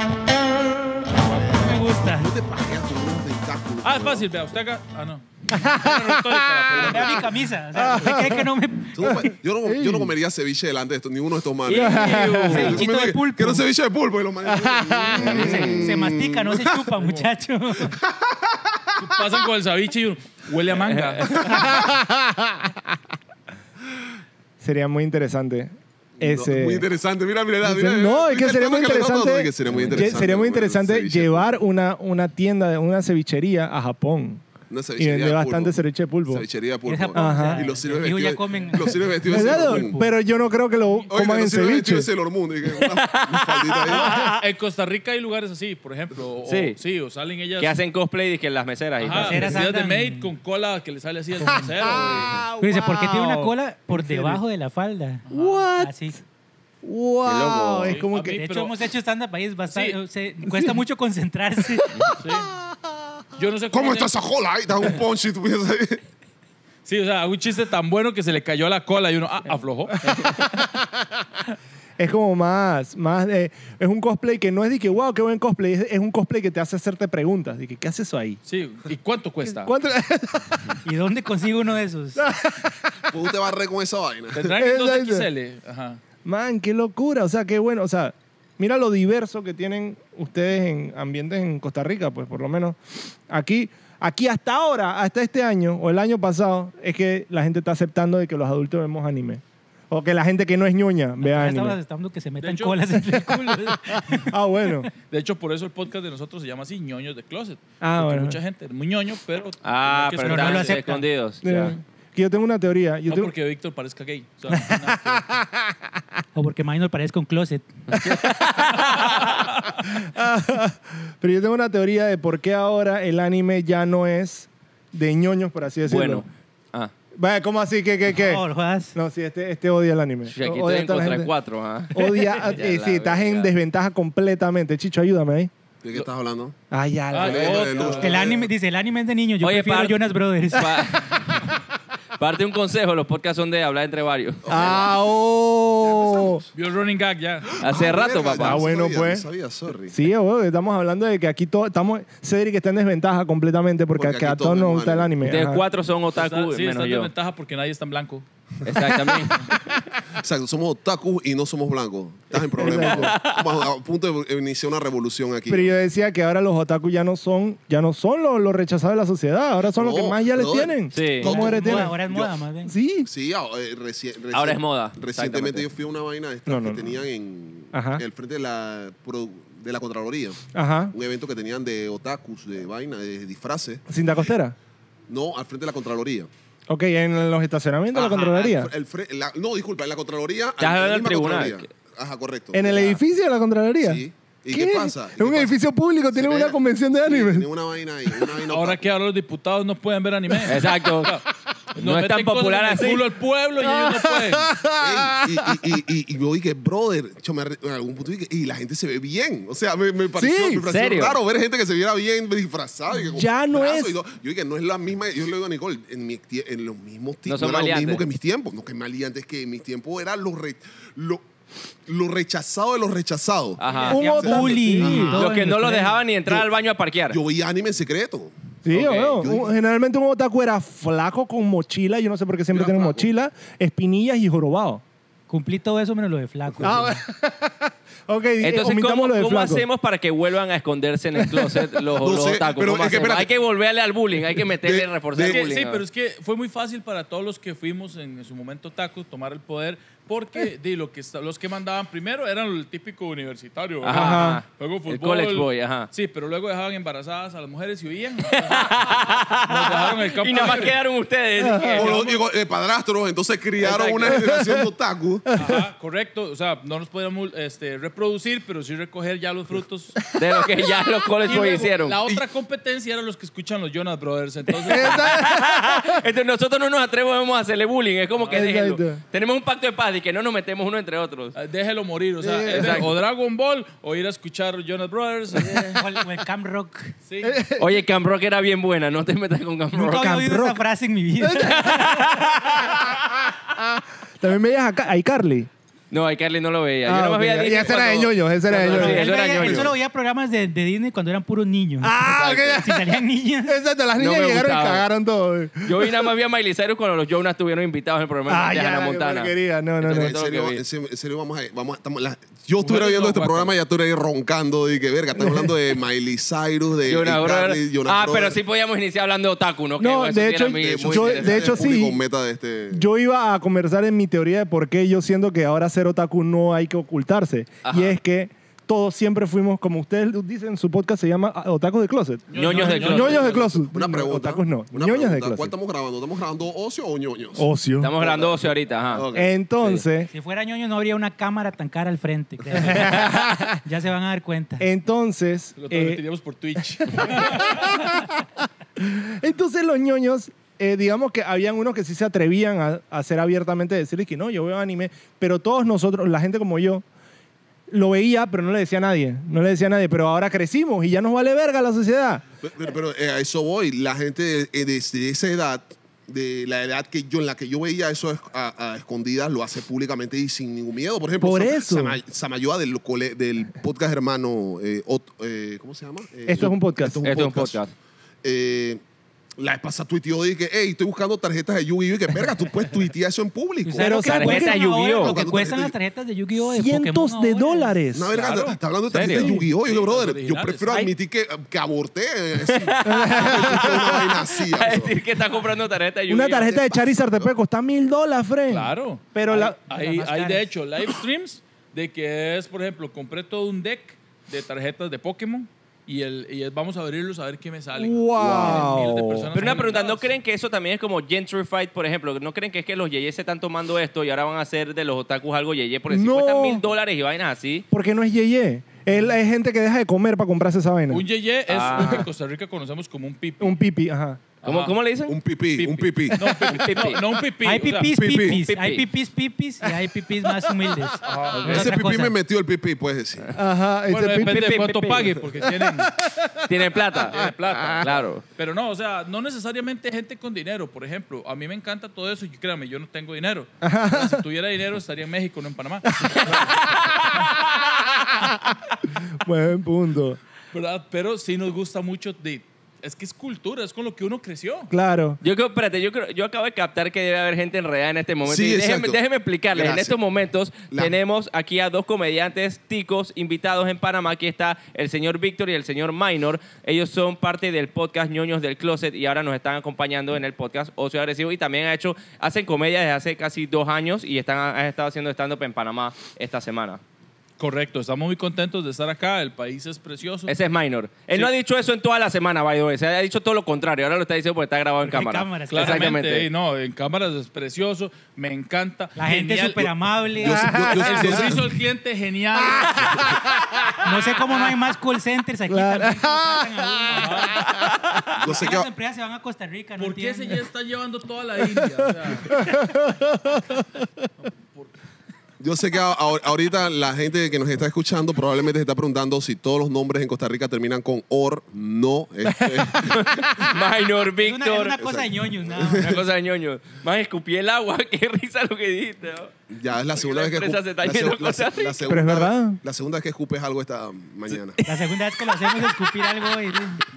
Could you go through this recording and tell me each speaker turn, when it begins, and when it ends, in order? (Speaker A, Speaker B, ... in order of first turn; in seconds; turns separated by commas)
Speaker A: 1.2-4.3, Speaker B: 1.3-2.3, Speaker C: 3.8-8.2, Speaker D: 5.5-6.8, Speaker A: 6.7-7.2, Speaker B: 6.7-9.3, Speaker D: 7.7-10.1, Speaker A: 8.9-16.8, Speaker E: 11.7-12.8, Speaker D: 11.7-12.8, Speaker B: 12.0-13.7, Speaker D: 14.4-15.8, Speaker E: 15.2-15.9, Speaker B: 15.4-18.0, Speaker C: 17.0-17.3, Speaker A: 17.8-18.8, Speaker C: 19.0-21.6, Speaker E: 20.7-21.7, Speaker D: 21.4-22.8, Speaker A: 21.5-21.9, Speaker D: 24.6-26.9, Speaker A: 26.2-31.5, Speaker D: 27.6-34.4, Speaker A: 34.7-35.8, Speaker D: 35.0-36.4, Speaker A: 36.3-40.0, Speaker B: 36.9-40.1, Speaker D: 37.1-37.7, Speaker D: 39.2-42.1, Speaker A: 41.1-44.3, Speaker E: 42.7-44.4, Speaker C: 44.1-47.8, Speaker E: 46.5-46.8, Speaker E: 47.6-49.5, Speaker C: 49.0-52.4, Speaker B: 49.1-50.3, Speaker D: 51.4-54.4, Speaker B: 51.4-51.7, Speaker B: 52.6-56.2, Speaker C: 55.3-55.6, Speaker D: 55.3-56.2, Speaker D: 56.8-58.4, Speaker E: 57.2-58.0, Speaker C: 57.8-58.9, Speaker B: 58.1-61.9, Speaker C: 59.7-60.0, Speaker D: 60.5-60.8, Speaker D: 61.8-63.1, Speaker C: 62.2-62.5, Speaker C: 63.3-64.1, Speaker A: 63.7-66.0, Speaker C: 66.8-70.5, Speaker D: 70.0-71.1, Speaker D: 72.0-78.4, Speaker C: 78.5-79.7, Speaker D: 79.4-80.8, Speaker B: 80.8-82.2, Speaker D: 82.2-83.1, Speaker A: 83.1-84.5, Speaker C: 84.3-86.0, Speaker D: 84.5-85.3, Speaker D: 86.2-101.8, Speaker B: 101.2-104.3, Speaker C: 102.4-103.3, Speaker D: 103.1-104.9, Speaker C: 105.1-110.8, Speaker D: 107.8-108.4, Speaker E: 109.6-111.7, Speaker B: 110.2-111.0, Speaker D: 111.4-113.3, Speaker C: 113.1-115.3, Speaker D: 114.5-115.8, Speaker B: 116.3-118.0, Speaker D: 117.9-118.2, Speaker E: 117.9-119.5, Speaker C: 119.1-119.7, Speaker D: 119.8-126.2, Speaker E: 125.9-126.9, Speaker D: 127.1-131.3, Speaker B: 128.1-128.9, Speaker E: 130.3-133.5, Speaker D: 131.9-135.5, Speaker A: 135.8-136.6, Speaker D: 136.7-138.0, Speaker C: 137.1-138.4, Speaker A: 137.1-138.5, Speaker B: 137.8-141.2, Speaker E: 139.4-141.5, Speaker E: 142.2-144.7, Speaker A: 144.4-145.1, Speaker D: 144.5-146.4, Speaker A: 145.8-146.5, Speaker C: 146.5-147.6, Speaker E: 147.6-148.6, Speaker A: 147.6-150.0, Speaker D: 148.4-149.3, Speaker D: 149.9-155.6, Speaker A: 153.9-155.2, Speaker E: 155.2-157.1, Speaker C: 156.1-158.2, Speaker E: 158.6-159.5, Speaker A: 158.7-165.7, Speaker D: 162.6-163.1, Speaker E: 162.6-163.7, Speaker D: 165.5-172.0, Speaker A: 169.6-172.3, Speaker E: 170.9-171.3, Speaker B: 171.2-172.7, Speaker D: 172.6-173.1, Speaker A: 173.1-183.8, Speaker E: 174.3-175.7, Speaker D: 176.4-177.0, Speaker D: 177.7-178.0, Speaker D: 180.5-180.9, Speaker D: 183.9-184.5, Speaker A: 185.1-186.3, Speaker D: 186.7-188.7, Speaker A: 187.9-192.9, Speaker E: 188.0-188.4, Speaker E: 190.6-191.7, Speaker D: 192.5-197.5, Speaker E: 192.7-193.0, Speaker A: 193.8-195.5, Speaker A: 196.1-198.8, Speaker C: 198.5-204.5, Speaker E: 200.4-201.2, Speaker E: 201.8-203.1, Speaker D: 203.6-205.8, Speaker A: 204.8-221.2, Speaker D: 210.2-210.7, Speaker E: 210.6-211.2, Speaker D: 212.9-213.9, Speaker E: 217.2-218.0, Speaker A: 221.8-225.1, Speaker E: 223.6-227.2, Speaker B: 223.7-226.0, Speaker D: 223.8-225.3, Speaker A: 227.1-229.5, Speaker D: 228.6-234.8, Speaker E: 228.7-229.2, Speaker A: 232.5-233.1, Speaker B: 235.3-237.0, Speaker D: 236.6-239.6, Speaker E: 238.4-245.8, Speaker D: 241.1-241.9, Speaker A: 242.0-243.3, Speaker A: 244.3-245.5, Speaker C: 245.2-260.8, Speaker E: 253.8-255.9, Speaker D: 253.9-254.4, Speaker E: 258.3-262.0, Speaker D: 261.4-261.9, Speaker C: 261.7-262.2, Speaker A: 261.7-265.3, Speaker C: 263.6-264.2, Speaker D: 264.0-264.7, Speaker D: 265.3-265.6, Speaker C: 265.4-270.0, Speaker E: 270.1-272.0, Speaker D: 270.1-271.7, Speaker C: 271.2-275.1, Speaker D: 274.6-276.0, Speaker E: 274.7-281.4, Speaker C: 278.1-278.5, Speaker D: 278.3-279.0, Speaker C: 281.4-285.8, Speaker D: 282.2-282.8, Speaker E: 282.5-282.9, Speaker B: 285.7-286.9, Speaker C: 287.0-287.4, Speaker D: 287.2-287.8, Speaker E: 287.6-290.2, Speaker B: 289.8-291.8, Speaker D: 289.8-290.6, Speaker D: 291.2-295.5, Speaker E: 291.4-293.0, Speaker E: 295.9-299.7, Speaker D: 296.8-299.2, Speaker B: 298.6-303.6, Speaker D: 301.8-306.1, Speaker E: 304.0-304.8, Speaker E: 305.6-310.6, Speaker D: 308.3-310.1, Speaker A: 309.8-318.4, Speaker C: 312.6-313.5, Speaker D: 315.2-315.5, Speaker E: 316.9-321.6, Speaker D: 319.8-322.0, Speaker A: 320.5-322.9, Speaker D: 322.7-335.5, Speaker E: 327.6-327.9, Speaker C: 332.3-333.4, Speaker E: 332.3-333.3, Speaker A: 332.6-339.3, Speaker D: 337.4-337.9, Speaker E: 337.8-339.1, Speaker D: 339.1-340.1, Speaker B: 340.1-344.7, Speaker D: 342.5-343.6, Speaker D: 344.6-346.0, Speaker C: 345.6-348.0, Speaker D: 346.6-348.2, Speaker D: 348.8-356.8, Speaker D: 357.7-362.2, Speaker A: 362.4-377.6, Speaker D: 371.2-372.0, Speaker D: 376.2-377.0, Speaker E: 377.0-377.7, Speaker A: 378.2-378.8, Speaker A: 379.4-383.9, Speaker B: 383.6-387.8, Speaker D: 383.7-384.6, Speaker E: 383.9-385.2, Speaker A: 385.0-385.7, Speaker D: 386.4-388.1, Speaker A: 387.9-395.0, Speaker C: 388.1-388.6, Speaker E: 388.9-389.3, Speaker D: 388.9-389.5, Speaker C: 389.6-390.7, Speaker E: 392.4-396.6, Speaker D: 392.8-394.1, Speaker D: 396.1-399.6, Speaker A: 396.5-397.3, Speaker C: 398.5-410.1, Speaker B: 399.6-400.4, Speaker D: 407.8-409.4, Speaker A: 408.2-408.7, Speaker E: 409.3-417.6, Speaker D: 415.9-416.6, Speaker D: 417.7-421.0, Speaker C: 420.9-423.6, Speaker E: 421.5-422.0, Speaker D: 421.8-422.0, Speaker D: 423.4-424.2, Speaker C: 424.4-424.8, Speaker E: 424.4-425.2, Speaker A: 425.1-426.3, Speaker C: 425.6-428.0, Speaker D: 426.1-426.6, Speaker E: 426.5-427.0, Speaker B: 427.4-432.1, Speaker A: 427.9-428.4, Speaker E: 428.2-428.9, Speaker D: 429.6-431.0, Speaker C: 431.0-431.7, Speaker A: 431.4-433.3, Speaker D: 433.3-437.8, Speaker C: 433.9-435.9, Speaker E: 434.2-435.1, Speaker E: 436.5-437.2, Speaker C: 437.1-446.6, Speaker E: 437.8-438.2, Speaker D: 443.6-444.2, Speaker D: 446.1-446.3, Speaker E: 446.2-447.9, Speaker D: 449.2-450.2, Speaker C: 450.5-454.7, Speaker D: 454.7-455.2, Speaker E: 455.2-476.8, Speaker A: 458.2-460.0, Speaker C: 477.4-480.3, Speaker E: 480.3-486.3, Speaker B: 484.9-485.9, Speaker C: 485.5-489.7, Speaker B: 488.9-490.6, Speaker A: 490.2-491.5, Speaker D: 490.3-491.4, Speaker C: 490.7-493.3, Speaker D: 492.4-493.7, Speaker B: 493.8-497.4, Speaker D: 495.5-498.1, Speaker C: 496.9-497.4, Speaker A: 498.1-498.7, Speaker B: 498.2-500.4, Speaker C: 499.8-502.5, Speaker D: 501.5-504.1, Speaker C: 504.2-504.7, Speaker A: 505.4-513.6, Speaker E: 512.4-514.8, Speaker B: 514.2-516.0, Speaker A: 514.8-516.0, Speaker E: 515.7-519.3, Speaker A: 519.5-524.6, Speaker E: 519.9-522.0, Speaker D: 521.9-522.6, Speaker E: 524.3-524.6, Speaker B: 524.6-526.8, Speaker E: 525.4-526.2